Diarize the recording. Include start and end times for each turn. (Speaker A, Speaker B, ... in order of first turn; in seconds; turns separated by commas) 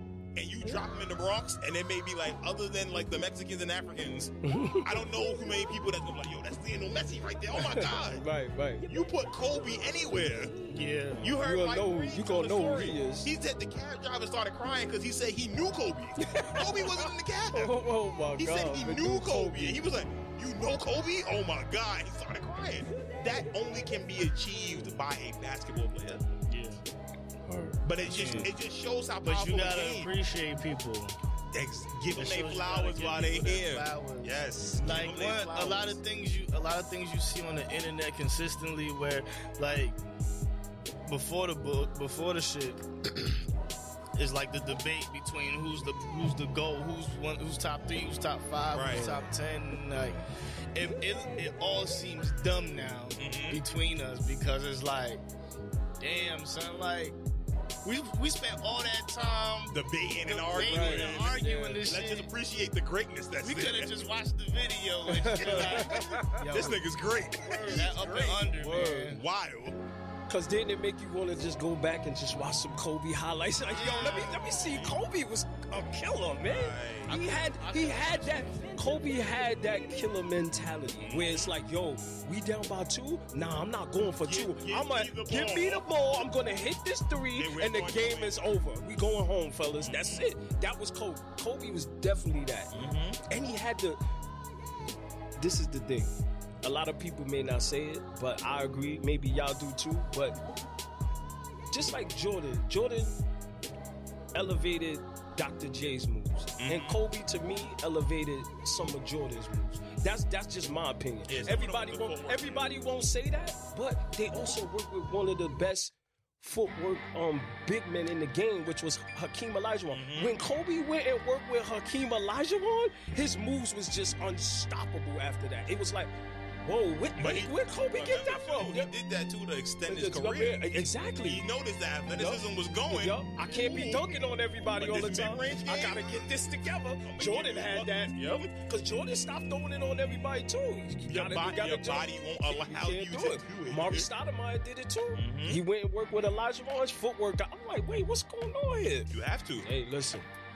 Speaker A: 0.3-8.2, Speaker B: 4.4-5.1, Speaker B: 7.5-8.9, Speaker A: 8.9-10.5, Speaker B: 10.2-10.6, Speaker C: 10.7-11.3, Speaker A: 11.2-17.8, Speaker B: 11.3-13.3, Speaker B: 16.2-19.8, Speaker A: 18.4-26.2, Speaker C: 26.5-26.8, Speaker B: 27.5-28.5, Speaker A: 27.8-30.1, Speaker C: 28.0-28.5, Speaker C: 29.2-31.2, Speaker A: 31.5-36.0, Speaker C: 32.1-40.0, Speaker C: 41.1-43.5, Speaker C: 44.2-55.2, Speaker A: 48.7-49.1, Speaker B: 48.9-49.3, Speaker B: 49.9-50.3, Speaker A: 53.2-53.6, Speaker C: 56.0-57.2, Speaker C: 57.8-62.3, Speaker A: 59.7-64.0, Speaker B: 60.6-61.9, Speaker C: 63.4-66.8, Speaker B: 65.1-66.5, Speaker A: 65.4-69.8, Speaker B: 67.5-67.9, Speaker C: 67.6-69.2, Speaker B: 68.6-69.2, Speaker B: 70.3-94.0, Speaker A: 73.6-75.0, Speaker C: 73.8-74.4, Speaker A: 76.4-77.2, Speaker C: 77.1-79.0, Speaker A: 81.0-81.5, Speaker A: 84.2-86.2, Speaker A: 87.4-88.4, Speaker A: 89.8-90.3, Speaker A: 92.7-93.2, Speaker B: 95.4-100.4, Speaker B: 101.7-103.2, Speaker B: 104.3-128.9, Speaker A: 106.6-107.0, Speaker A: 111.3-112.7, Speaker A: 119.9-120.4, Speaker A: 127.2-136.5, Speaker B: 129.9-131.4, Speaker B: 132.1-150.3, Speaker A: 137.0-138.5, Speaker A: 141.1-144.1, Speaker A: 145.2-145.6, Speaker A: 149.1-149.7